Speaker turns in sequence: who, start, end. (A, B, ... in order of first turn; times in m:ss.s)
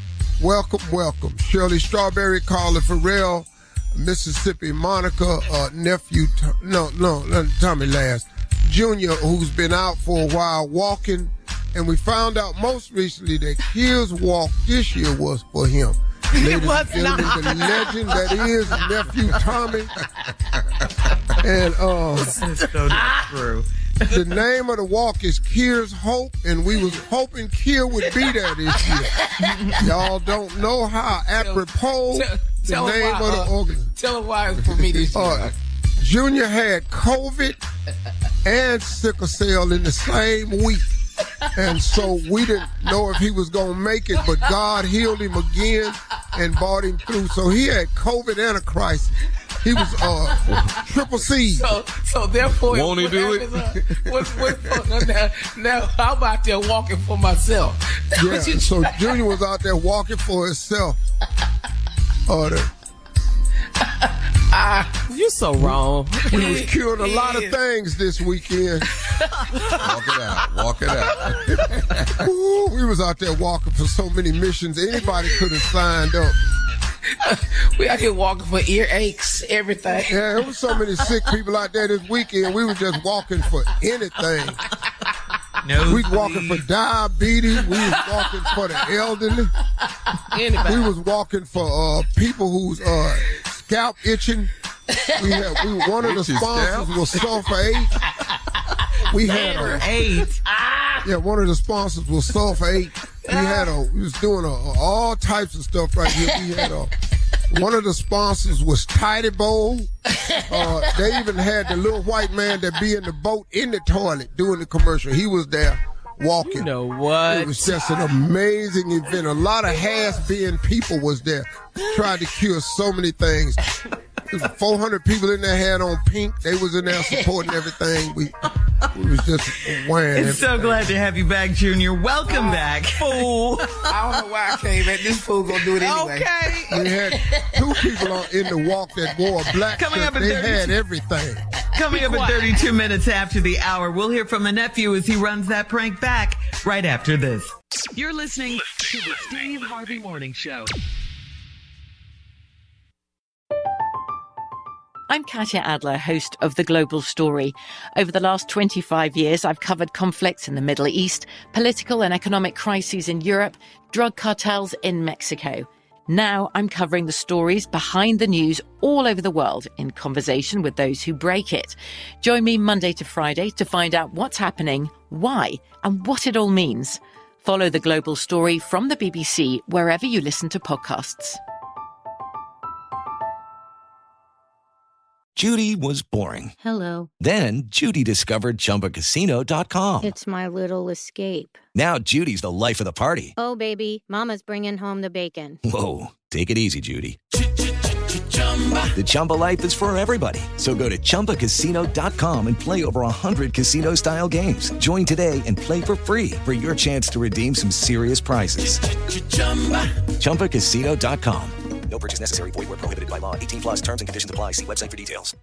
0:00.4-0:19.9 A
0:16.4-0:17.7 B
0:21.4-0:22.4 A
0:22.3-0:24.1 C
0:24.1-0:33.9 A
0:31.4-0:35.6 B
0:34.5-0:37.6 A
0:38.4-0:40.9 A
0:41.5-0:51.8 A
0:51.6-0:58.7 B
0:52.6-0:54.8 D
0:58.2-1:01.0 A
1:02.3-1:02.7 A
1:04.5-1:07.6 B
1:05.6-1:08.9 A
1:09.8-1:12.2 D
1:12.2-1:16.4 A
1:17.2-1:20.1 B
1:20.1-1:24.6 A
1:25.6-1:26.6 C
1:25.9-1:29.5 A
1:30.4-1:30.9 B
1:30.6-1:34.5 A
1:35.2-1:38.0 A
1:36.0-1:36.9 D
1:39.1-1:39.9 A
1:39.6-1:40.4 C
1:41.0-1:46.9 A
1:47.5-1:49.9 A
1:50.5-2:03.6 A
1:56.7-1:57.6 B
2:04.3-2:08.4 A
2:08.9-2:10.9 A
2:10.1-2:14.0 C
2:14.0-2:16.9 B
2:15.7-2:16.7 C
2:16.7-2:21.4 A
2:19.7-2:20.8 C
2:21.7-2:30.7 C
2:35.1-3:01.4 E
3:05.4-3:06.6 F
3:07.2-3:10.2 F
3:10.2-3:11.6 G
3:11.7-3:13.4 F
3:13.4-3:15.6 G
3:15.6-3:17.2 F
3:18.9-3:35.3 F